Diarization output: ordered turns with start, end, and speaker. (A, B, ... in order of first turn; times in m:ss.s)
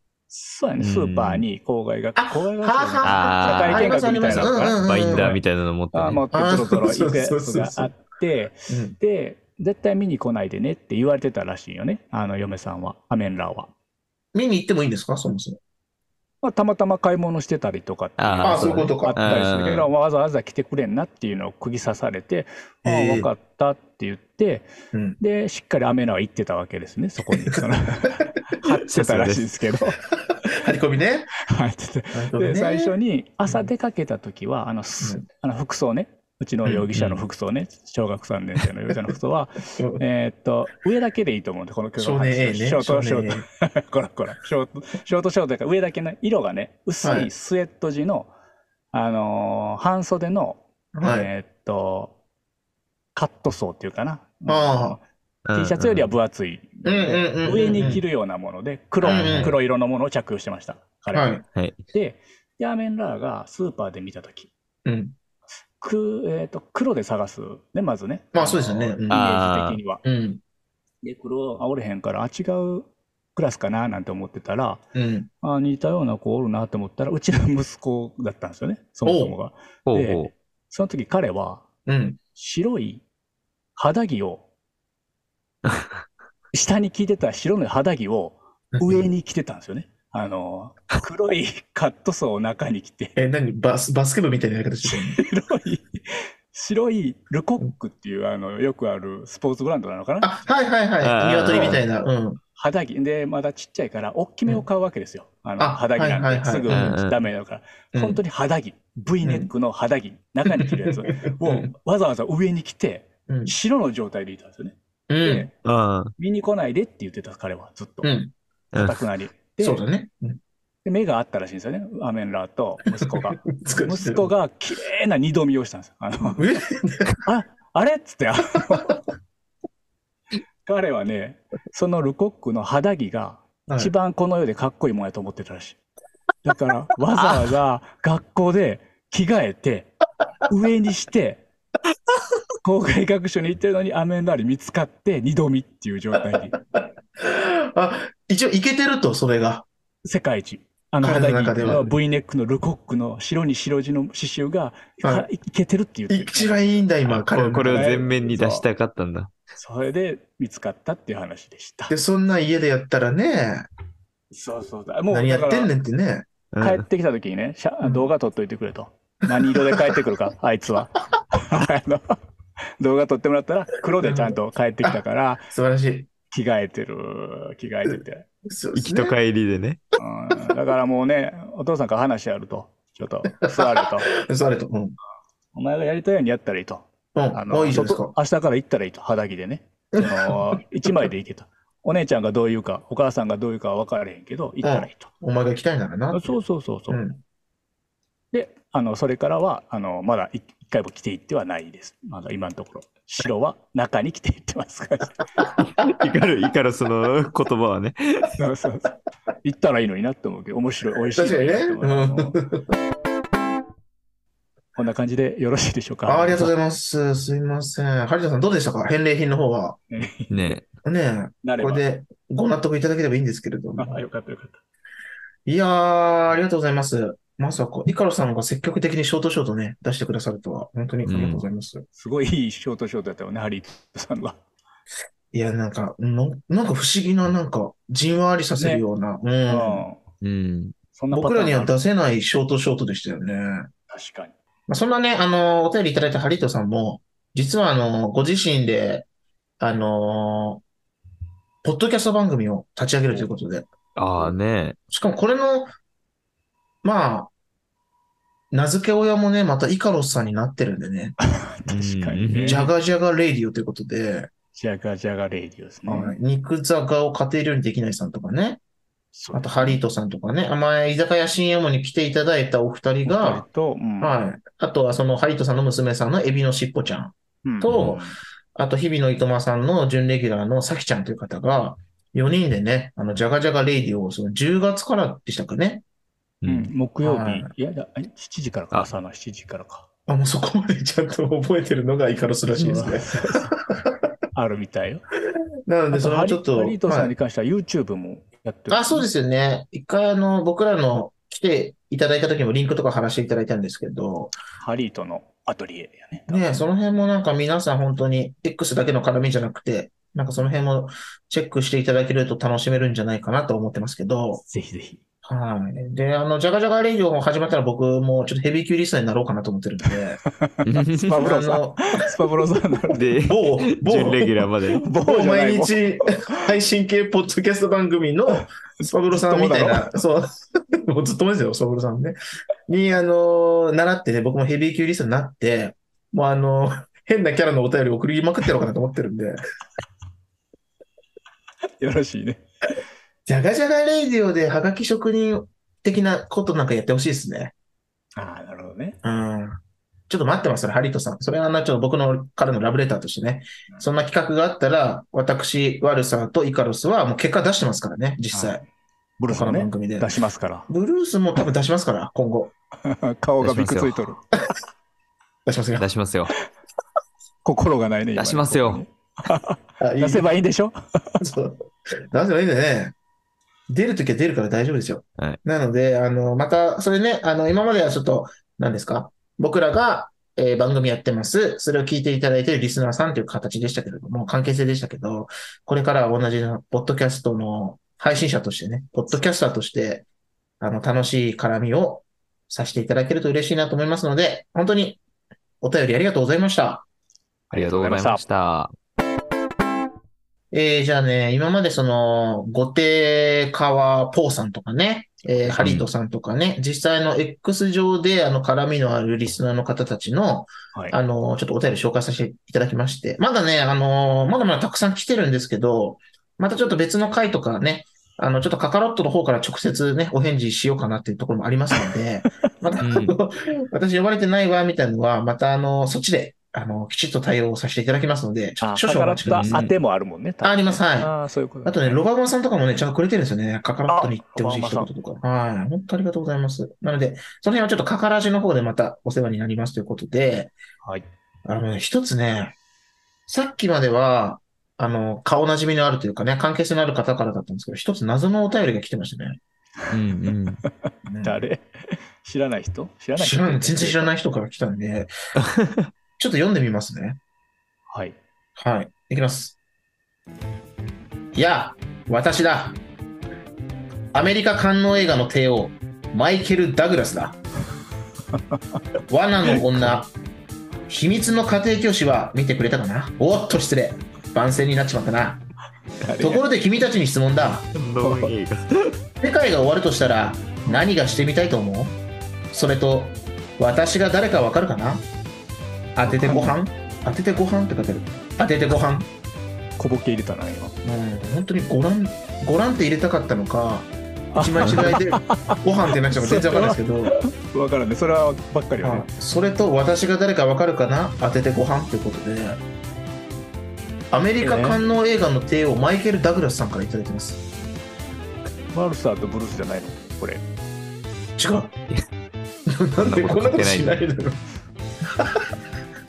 0:00.3-0:05.4 A
0:00.8-0:01.4 B
0:02.2-0:05.4 C
0:03.0-0:06.2 B
0:05.9-0:13.7 A
0:06.3-0:07.9 C
0:08.7-0:09.0 C
0:14.3-0:15.6 C
0:16.4-0:30.0 A
0:18.2-0:19.9 B
0:18.4-0:19.4 C
0:22.8-0:23.3 C
0:24.9-0:25.2 C
0:28.9-0:29.5 B
0:30.5-0:31.3 C
0:31.4-0:48.3 A
0:32.1-0:32.9 C
0:36.9-0:37.2 B
0:39.8-0:40.0 C
0:42.0-0:43.4 C
0:47.0-0:47.3 C
0:48.9-0:52.2 A
0:51.0-0:51.3 C
0:53.2-0:55.0 A
0:54.5-0:55.0 C
0:55.5-0:56.1 B
0:55.5-1:01.3 A
0:56.8-0:58.0 C
0:59.0-0:59.6 C
0:59.0-0:59.6 B
1:01.1-1:01.4 C
1:01.9-1:04.5 A
1:04.8-1:05.2 C
1:05.8-1:10.0 A
1:08.3-1:09.2 C
1:09.1-1:09.8 B
1:10.0-1:10.4 C
1:11.0-1:14.8 A
1:15.0-1:15.3 C
1:15.4-1:21.7 A
1:19.0-1:19.4 C
1:19.9-1:20.3 B
1:21.9-1:22.2 C
1:22.4-1:23.0 A
1:23.8-1:24.4 A
1:26.5-1:33.2 A
1:28.7-1:29.1 C
1:33.2-1:35.2 C
1:34.9-1:40.4 A
1:40.2-1:42.4 C
1:41.0-1:41.8 B
1:42.6-1:55.5 A
1:45.6-1:46.9 C
1:46.7-1:47.2 B
1:47.9-1:48.2 C
1:49.2-1:49.5 C
1:50.6-1:51.7 C
1:53.3-1:53.5 C
1:55.1-1:55.5 C
1:55.6-1:56.1 B
1:56.2-1:58.2 A
1:58.0-1:58.3 C
1:58.7-1:59.8 A
1:59.6-2:00.4 C
2:00.8-2:06.5 A
2:03.1-2:04.3 C
2:06.4-2:07.2 C
2:07.2-2:09.0 A
2:10.6-2:15.8 A
2:13.7-2:13.9 C
2:16.4-2:19.9 A
2:20.5-2:21.4 A
2:22.6-2:26.6 A
2:26.5-2:29.7 C
2:30.0-2:38.6 A
2:31.0-2:31.9 C
2:36.1-2:38.0 C
2:37.2-2:39.3 B
2:39.6-2:42.0 A
2:41.9-2:43.7 C
2:44.3-2:45.7 A
2:45.1-2:46.3 C
2:46.5-2:46.8 B
2:46.6-2:52.2 A
2:52.8-2:55.5 A
2:54.0-2:54.9 C
2:55.5-2:56.1 C
2:56.3-2:58.3 A
2:58.5-2:59.2 C
2:58.8-2:59.8 B
3:00.0-3:04.1 A
3:03.4-3:05.0 C
3:05.5-3:15.1 A
3:07.2-3:08.1 C
3:09.9-3:10.6 C
3:14.6-3:16.4 C
3:16.1-3:17.0 A
3:16.9-3:17.2 C
3:18.3-3:25.2 A
3:25.6-3:28.4 B
3:28.4-3:28.9 A
3:29.4-3:32.4 A
3:31.2-3:32.7 C
3:34.8-3:36.5 A
3:36.1-3:39.8 C
3:39.9-3:40.6 A
3:40.3-3:40.7 B
3:40.8-3:44.0 C
3:41.4-3:41.8 A
3:43.8-3:44.6 A
3:45.5-3:51.9 C
3:51.0-3:51.4 B
3:52.0-3:54.4 A
3:55.3-3:59.8 C
3:58.6-3:58.8 A
3:59.5-4:00.0 A
4:00.2-4:00.8 B
4:01.0-4:01.7 A
4:01.1-4:03.7 C
4:03.9-4:04.4 A
4:04.7-4:09.1 C
4:09.6-4:10.6 C
4:11.6-4:13.7 C
4:14.0-4:14.8 B
4:14.9-4:15.7 C
4:16.8-4:17.3 C
4:18.5-4:21.2 C
4:21.2-4:22.7 A
4:21.7-4:22.6 B
4:22.4-4:24.3 C
4:24.6-4:26.2 A
4:25.9-4:28.6 C
4:29.2-4:29.8 A
4:29.3-4:33.4 C
4:33.0-4:34.2 A
4:34.0-4:45.8 C
4:37.4-4:38.2 A
4:46.4-4:46.7 B
4:46.5-4:49.9 A
4:47.0-4:47.5 C
4:50.1-4:54.1 C
4:52.5-4:53.5 A
4:54.4-4:55.0 A
4:55.7-4:57.1 C
4:55.9-4:59.1 A
4:58.7-5:04.4 C
5:04.6-5:06.6 A
5:06.3-5:14.4 C
5:14.4-5:15.0 A
5:15.2-5:20.2 C
5:20.4-5:23.1 A
5:20.6-5:21.1 B
5:21.2-5:22.0 C
5:22.9-5:24.9 B
5:23.2-5:32.2 C
5:24.8-5:26.4 A
5:28.3-5:29.9 A
5:32.7-5:39.4 C
5:41.8-5:42.4 A
5:43.3-5:47.5 C
5:48.2-5:49.0 A
5:49.0-5:58.6 C
5:58.3-5:58.6 A
5:59.2-6:00.7 A
5:59.3-6:00.1 C
6:00.7-6:02.5 C
6:02.8-6:04.2 A
6:03.4-6:04.1 B
6:05.5-6:05.9 C
6:05.8-6:06.4 B
6:07.4-6:11.2 A
6:08.2-6:08.8 B
6:09.8-6:10.3 C
6:11.2-6:13.0 C
6:13.7-6:30.0 C
6:30.6-6:35.0 C
6:35.6-6:36.9 C
6:37.5-6:38.2 A
6:37.5-6:38.7 B
6:40.5-7:09.6 C
6:45.6-6:45.9 B
7:02.8-7:03.2 B
7:08.6-7:12.0 A
7:09.3-7:09.8 B
7:10.4-7:11.1 C
7:11.6-7:20.6 C
7:13.9-7:14.9 A
7:21.4-7:22.5 C
7:23.3-7:29.4 C
7:29.9-7:30.6 B
7:31.1-7:31.4 C
7:31.2-7:31.7 A
7:32.2-7:34.1 A
7:33.2-7:35.1 C
7:35.5-7:35.9 B
7:36.2-7:37.2 C
7:37.9-7:38.2 A
7:38.6-7:39.6 C
7:41.3-7:42.8 C
7:44.1-7:47.4 C
7:48.5-7:48.8 A
7:49.1-7:50.1 C
7:50.9-7:55.4 C
7:56.0-7:56.4 A
7:56.2-7:57.7 C
7:57.8-7:58.9 B
7:58.0-7:58.3 A
7:59.2-8:02.0 C
8:02.5-8:05.0 C
8:06.0-8:09.1 C
8:06.1-8:06.6 A
8:09.8-8:10.8 A
8:10.8-8:17.2 C
8:14.3-8:15.6 A
8:16.1-8:19.1 A
8:18.8-8:22.6 C
8:24.1-8:27.4 C
8:24.4-8:24.8 A
8:28.7-8:30.4 A
8:31.4-8:31.7 C
8:32.7-8:34.4 C
8:33.0-8:34.0 B